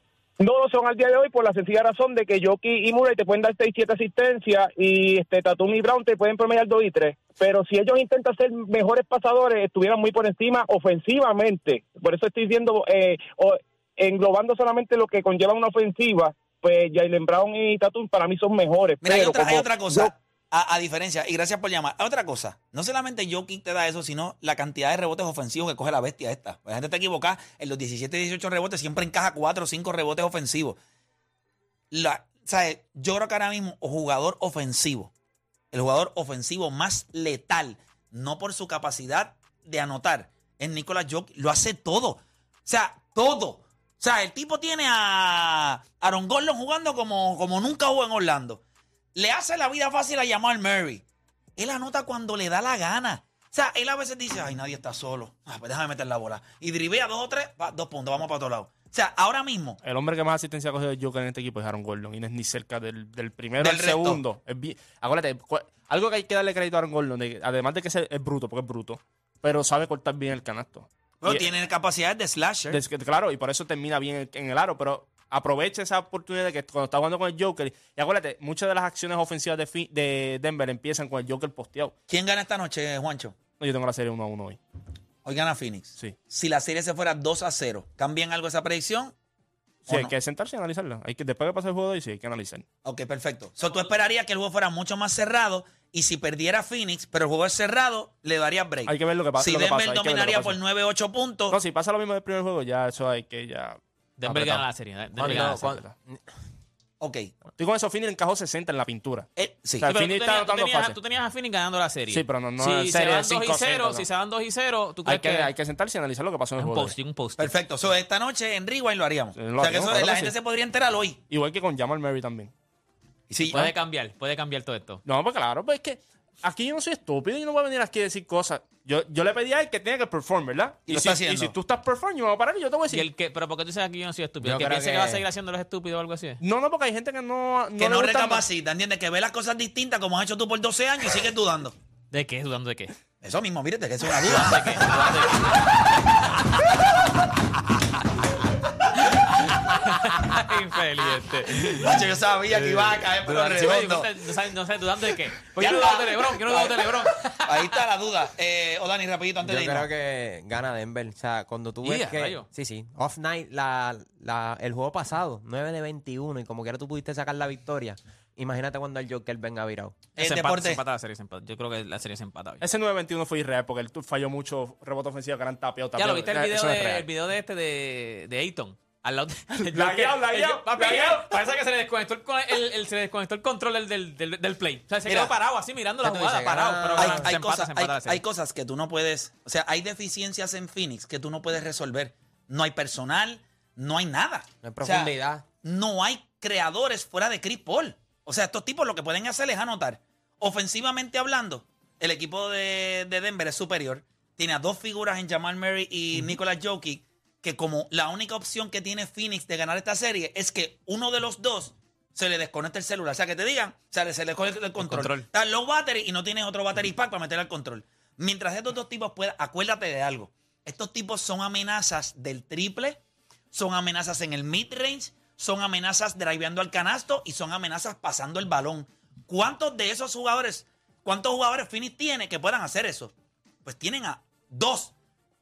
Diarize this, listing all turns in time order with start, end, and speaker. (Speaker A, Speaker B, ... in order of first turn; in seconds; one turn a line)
Speaker A: 0.4-20.1
Speaker B: 19.0-30.8
Speaker B: 31.9-35.1
Speaker B: 35.7-48.6
Speaker B: 49.1-51.0
Speaker B: 51.6-59.8
Speaker C: 59.8-71.5
Speaker B: 63.6-64.2
Speaker B: 71.2-72.8
Speaker C: 72.7-81.9
Speaker B: 82.1-83.4
Speaker C: 83.6-84.6
Speaker B: 85.2-89.1
Speaker B: 89.9-90.1
Speaker C: 89.9-92.6
Speaker B: 92.8-101.6
Speaker C: 98.8-100.6
Speaker C: 101.5-104.7
Speaker D: 104.2-105.8
Speaker E: 105.2-106.2
Speaker C: 105.2-105.8
Speaker B: 107.0-107.3
Speaker C: 107.5-109.3
Speaker B: 109.3-109.9
Speaker C: 109.8-111.0
Speaker D: 109.8-115.5
Speaker C: 112.1-114.0
Speaker C: 115.0-116.9
Speaker D: 116.6-117.5
Speaker B: 117.4-121.2
Speaker C: 119.3-120.3
Speaker C: 121.3-122.5
Speaker B: 123.3-123.7
Speaker D: 123.4-125.0
Speaker C: 125.0-133.1
Speaker B: 130.9-131.5
Speaker D: 132.9-136.4
Speaker E: 134.4-135.2
Speaker C: 136.4-138.4
Speaker B: 137.8-141.7
Speaker D: 142.1-142.9
Speaker B: 143.2-145.7
Speaker D: 144.2-146.3
Speaker D: 149.0-157.8
Speaker B: 151.8-154.1
Speaker B: 155.6-159.9
Speaker E: 159.4-169.9
Speaker D: 161.8-162.5
Speaker B: 170.2-170.8
Speaker D: 170.2-172.6
Speaker C: 172.6-177.1
Speaker D: 176.0-188.2
Speaker C: 179.5-181.4
Speaker B: 185.1-185.3
Speaker E: 186.0-187.3
Speaker B: 186.9-223.0
Speaker E: 194.6-195.4
Speaker D: 214.8-215.2
Speaker B: 223.5-233.1
Speaker B: 233.6-234.9